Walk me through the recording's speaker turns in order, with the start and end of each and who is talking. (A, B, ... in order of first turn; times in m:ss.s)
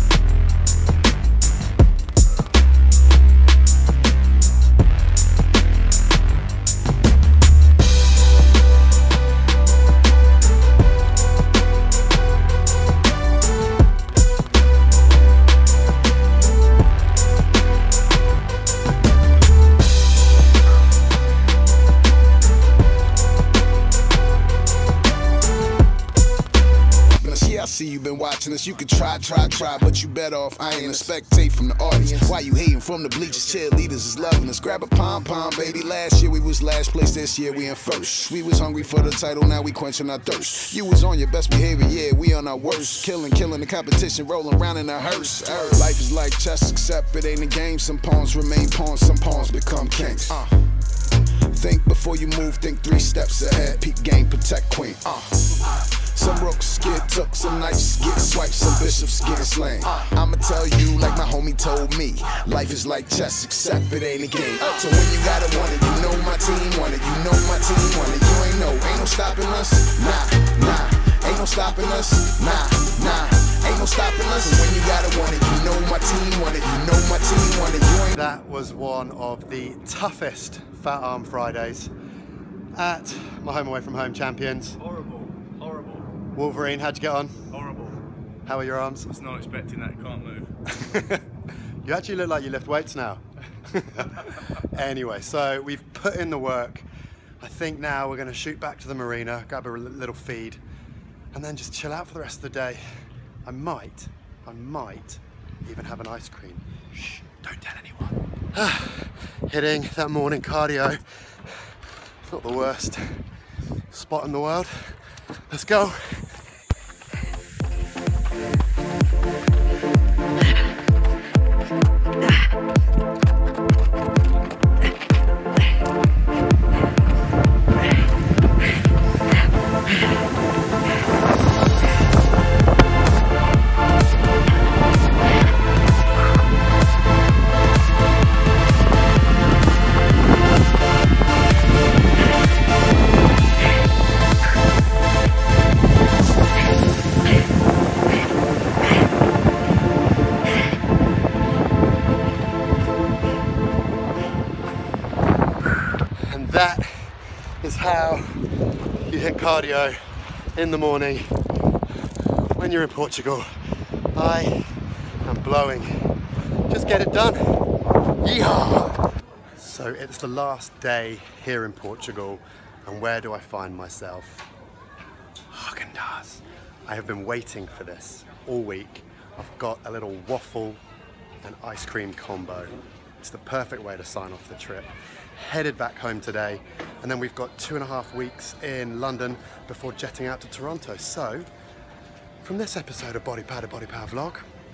0:27.2-0:50.5 A
0:51.5-1:18.2 A
1:18.2-1:21.9 B
1:22.8-1:24.8 B
1:24.8-1:26.1 C
1:26.4-1:27.4 B
1:27.5-1:28.0 C
1:28.5-1:29.1 B
1:29.1-1:30.5 C
1:30.7-1:31.3 B
1:31.8-1:36.9 B
1:37.4-1:40.6 B
1:41.3-1:42.8 B
1:43.4-1:53.2 B
1:53.9-1:56.4 B
2:36.2-2:38.4 B
2:39.1-2:40.0 B
2:40.5-2:41.4 B
2:42.5-2:43.5 B
2:44.1-2:46.1 B
2:46.7-2:47.6 B
2:48.2-2:49.0 B
2:49.6-2:54.5 B
2:55.5-3:00.8 B
3:01.4-3:11.5 B
3:12.4-3:14.5 B